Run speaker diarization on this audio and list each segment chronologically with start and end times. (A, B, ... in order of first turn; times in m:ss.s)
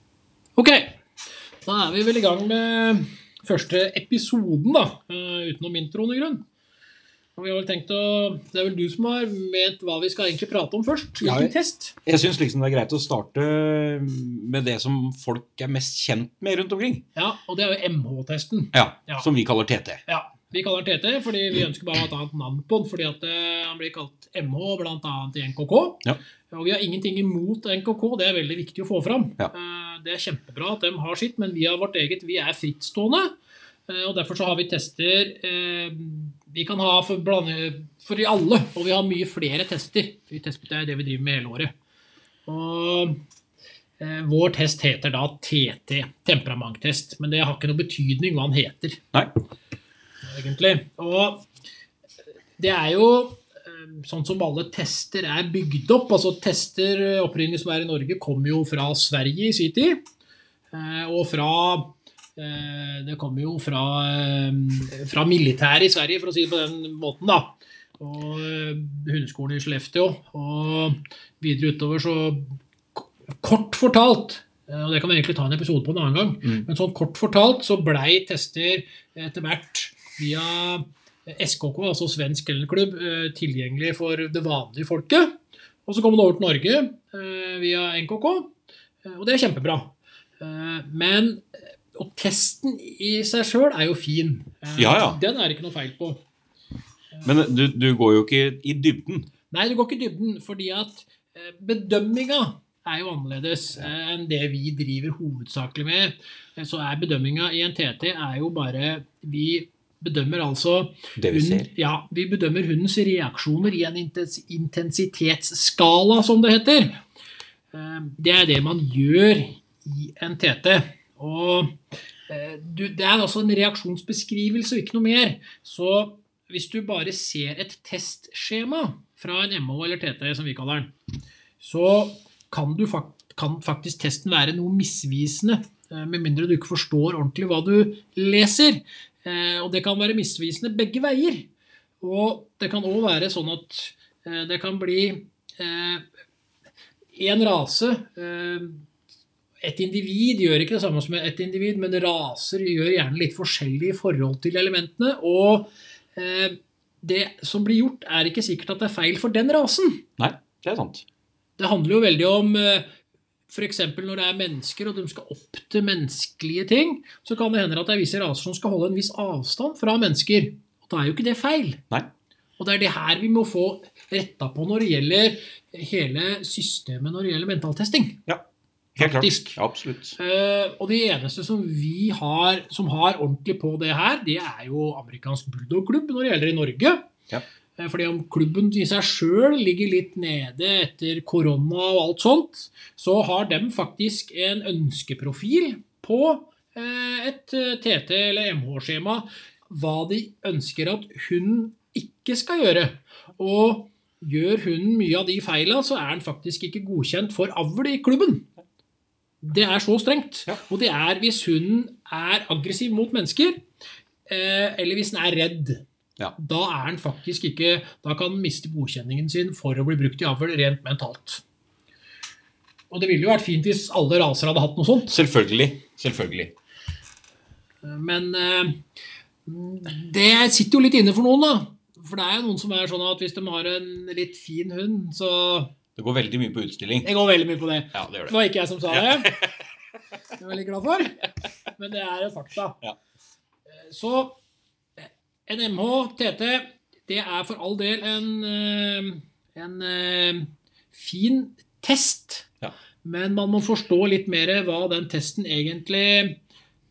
0:00.6-0:01.0 A
0:01.6-0:06.4 A
0:07.4-0:12.0 A
0:11.2-0:11.5 B
0:12.0-0:17.0 B
0:17.2-0:19.3 A
0:18.7-0:20.0 B
0:20.1-0:33.3 A
0:33.9-0:41.7 A
0:42.5-0:43.2 A
0:44.0-0:49.0 A
0:50.3-0:51.5 A
0:52.6-1:00.0 A
1:00.7-1:28.5 A
1:29.0-1:36.2 A
1:34.8-1:35.2 B
1:37.2-1:39.3 B
1:39.5-1:57.0 A
1:51.2-1:51.7 B
1:57.7-2:01.8 A
2:02.3-2:10.9 A
2:11.6-2:21.5 A
2:22.0-2:26.0 A
2:27.2-2:28.8 A
2:29.6-2:40.0 A
2:40.2-2:41.0 B
2:41.6-2:42.9 A
2:43.5-2:51.8 A
2:52.6-2:58.2 A
2:59.0-3:00.2 B
2:59.0-2:59.6 A
3:00.2-3:07.1 A
3:07.8-3:28.5 A
3:29.4-3:33.6 A
3:34.3-3:35.8 A
3:36.4-3:41.4 A
3:42.9-3:45.2 A
3:45.1-3:46.5 B
3:47.8-3:48.8 A
3:49.5-3:55.7 A
3:56.0-3:57.1 B
3:57.0-3:59.3 A
3:57.9-3:58.4 B
3:58.9-3:59.6 B
4:00.4-4:02.8 A
4:03.8-4:04.4 A
4:05.0-4:12.5 A
4:13.0-4:16.4 A